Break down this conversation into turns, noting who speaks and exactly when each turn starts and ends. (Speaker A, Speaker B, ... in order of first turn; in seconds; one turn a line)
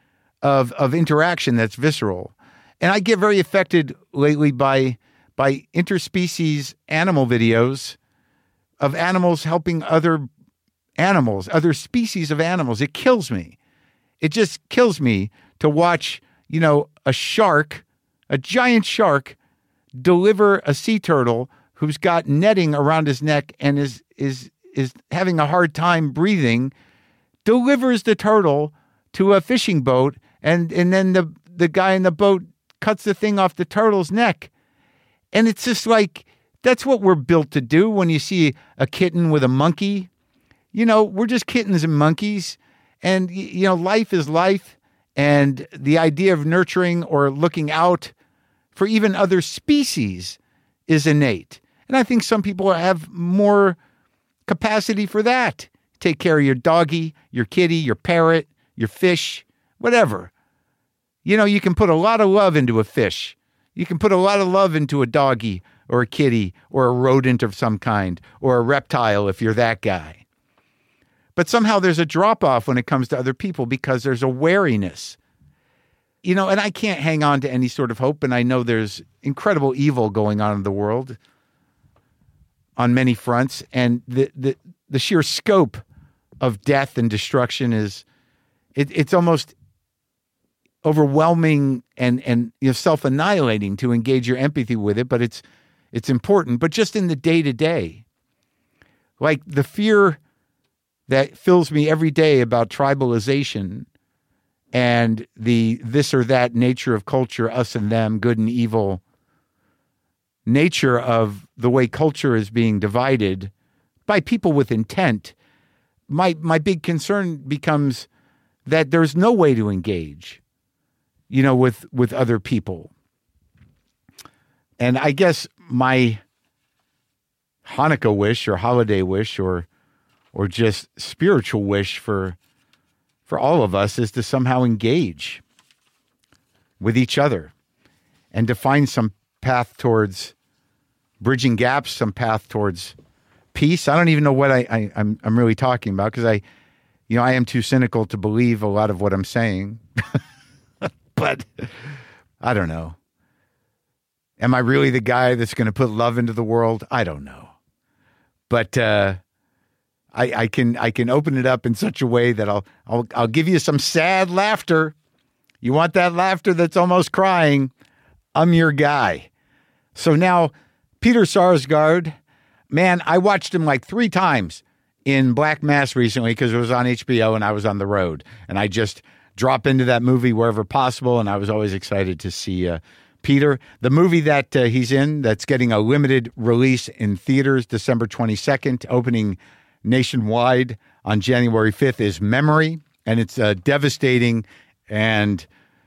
Speaker A: 0.4-8.0
Speaker A: 8.8-10.2
Speaker A: 11.0-13.6
Speaker A: 14.2-19.4
Speaker A: 20.0-26.7
Speaker A: 27.4-34.5
Speaker A: 35.3-40.1
Speaker A: 40.7-48.1
Speaker A: 48.7-53.8
Speaker A: 54.5-60.3
Speaker A: 61.2-70.2
Speaker A: 71.3-75.2
Speaker A: 76.2-81.2
Speaker A: 82.8-85.8
Speaker A: 86.4-88.0
Speaker A: 88.7-89.5
Speaker A: 90.8-98.0
Speaker A: 99.2-100.2
Speaker A: 101.1-103.9
Speaker A: 104.7-109.0
Speaker A: 110.5-113.5
Speaker A: 114.1-115.3
Speaker A: 116.1-118.1
Speaker A: 118.7-120.4
Speaker A: 121.3-122.9
Speaker A: 124.8-126.2
Speaker A: 127.6-129.7
Speaker A: 130.3-132.3
Speaker A: 133.3-135.4
Speaker A: 136.8-137.5
Speaker A: 138.3-140.3
Speaker A: 141.2-142.9
Speaker A: 143.5-146.4
Speaker A: 147.1-149.8
Speaker A: 151.1-151.7
Speaker A: 152.4-153.0
Speaker A: 154.4-157.5
Speaker A: 158.5-159.2
Speaker A: 160.1-164.9
Speaker A: 165.6-167.7
Speaker A: 168.3-169.3
Speaker A: 169.9-172.1
Speaker A: 172.7-195.5